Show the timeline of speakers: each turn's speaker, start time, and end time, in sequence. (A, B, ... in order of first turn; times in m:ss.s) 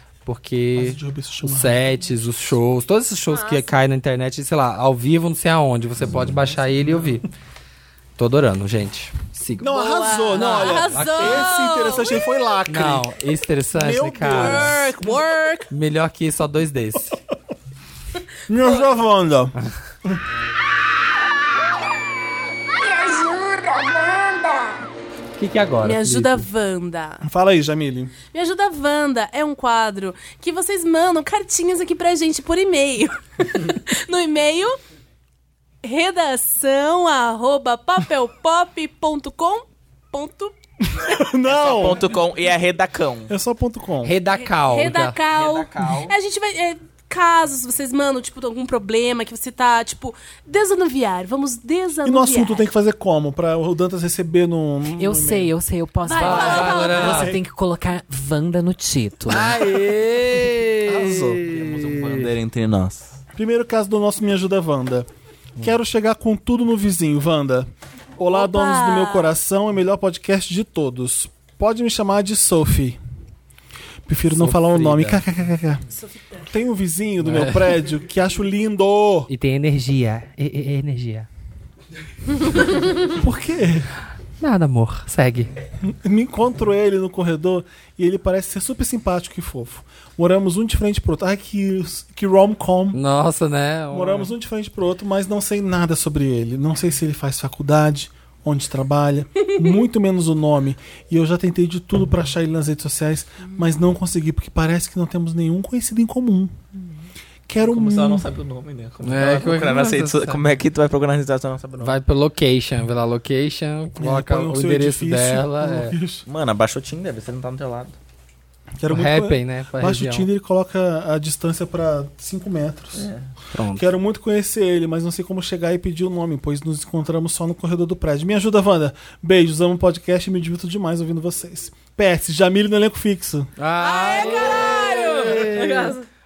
0:00.3-0:07.3 A
0:00.8-0:01.8 B
0:03.3-0:03.7 C
0:08.2-0:09.7 A
0:09.6-0:13.1 B
0:09.7-0:12.2 C
0:10.3-0:11.6 A
0:12.7-0:14.7 A
0:13.8-0:14.8 B
0:14.3-0:15.7 C
0:15.7-0:17.2 A
0:18.5-0:20.2 B
0:18.6-0:18.9 C
0:22.8-0:24.8 D
0:25.4-0:26.4 A
0:25.8-0:27.2 C
0:27.2-0:28.1 B
0:28.2-0:34.8 C
0:35.8-0:40.6 C
0:40.9-0:42.0 B
0:41.4-0:43.3 E
0:43.3-0:44.2 B
0:44.0-0:45.2 A
0:44.3-0:52.6 C
0:45.3-0:46.2 E
0:52.0-0:55.5 B
0:55.0-0:59.6 F
0:56.0-0:57.3 C
0:56.2-0:57.4 A
0:57.0-0:57.4 B
0:59.3-1:02.3 A
1:00.9-1:01.4 B
1:01.4-1:03.1 E
1:03.4-1:13.0 B
1:08.3-1:09.3 C
1:14.1-1:15.8 B
1:14.3-1:15.2 A
1:15.9-1:16.5 C
1:16.5-1:19.3 B
1:17.2-1:17.8 A
1:19.3-1:21.3 A
1:22.5-1:22.9 C
1:23.2-1:23.9 B
1:24.4-1:25.5 A
1:25.8-1:33.0 B
1:32.9-1:34.3 A
1:33.9-1:46.6 B
1:47.5-1:48.3 B
1:47.6-1:52.0 E
1:49.0-1:50.5 A
1:51.8-1:56.0 A
1:54.0-1:56.2 B
1:56.3-1:58.0 E
1:58.8-2:03.1 B
1:58.9-2:00.3 A
2:03.0-2:03.2 E
2:03.5-2:03.9 A
2:03.8-2:13.5 B
2:13.6-2:16.0 A
2:13.8-2:16.0 C